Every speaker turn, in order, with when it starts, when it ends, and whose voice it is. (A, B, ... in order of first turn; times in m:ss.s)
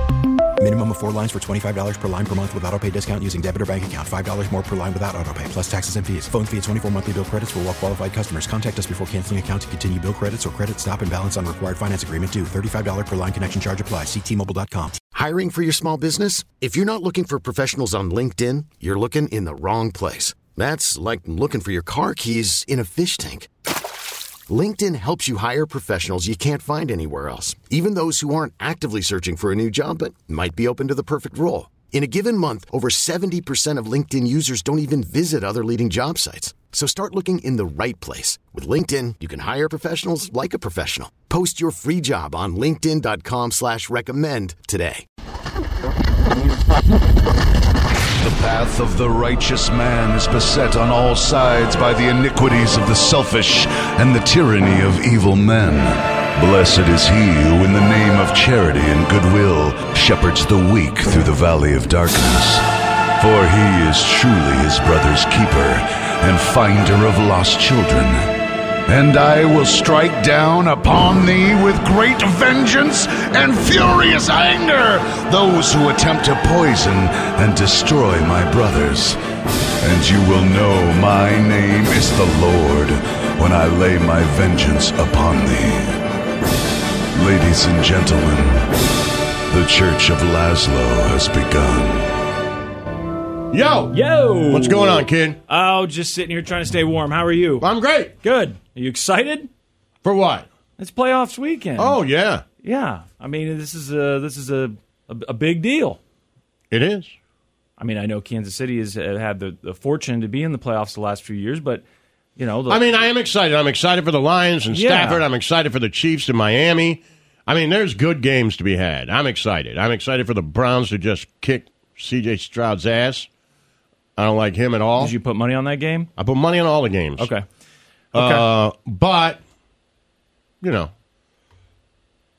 0:00.6-0:15.0 A
0:15.1-0:23.5 B
0:24.5-0:45.0 B
0:48.2-1:02.6 C
1:03.2-1:08.3 C
1:08.9-1:19.2 C
1:19.8-1:26.0 C
1:27.2-1:28.7 C
1:29.5-1:32.1 C
1:33.5-1:34.0 D
1:33.9-1:37.7 E
1:34.5-1:35.4 D
1:37.6-1:38.1 D
1:38.2-1:39.5 E
1:40.0-1:40.5 D
1:40.8-1:42.0 E
1:41.8-1:42.4 D
1:42.6-1:46.0 E
1:46.7-1:47.1 D
1:47.8-1:51.8 E
1:52.4-1:52.8 E
1:52.7-2:03.3 D
1:54.7-1:55.2 E
2:04.2-2:05.1 D
2:05.0-2:06.1 E
2:06.2-2:07.3 D
2:07.2-2:07.4 E
2:08.1-2:08.5 E
2:08.1-2:09.4 D
2:10.6-2:10.9 D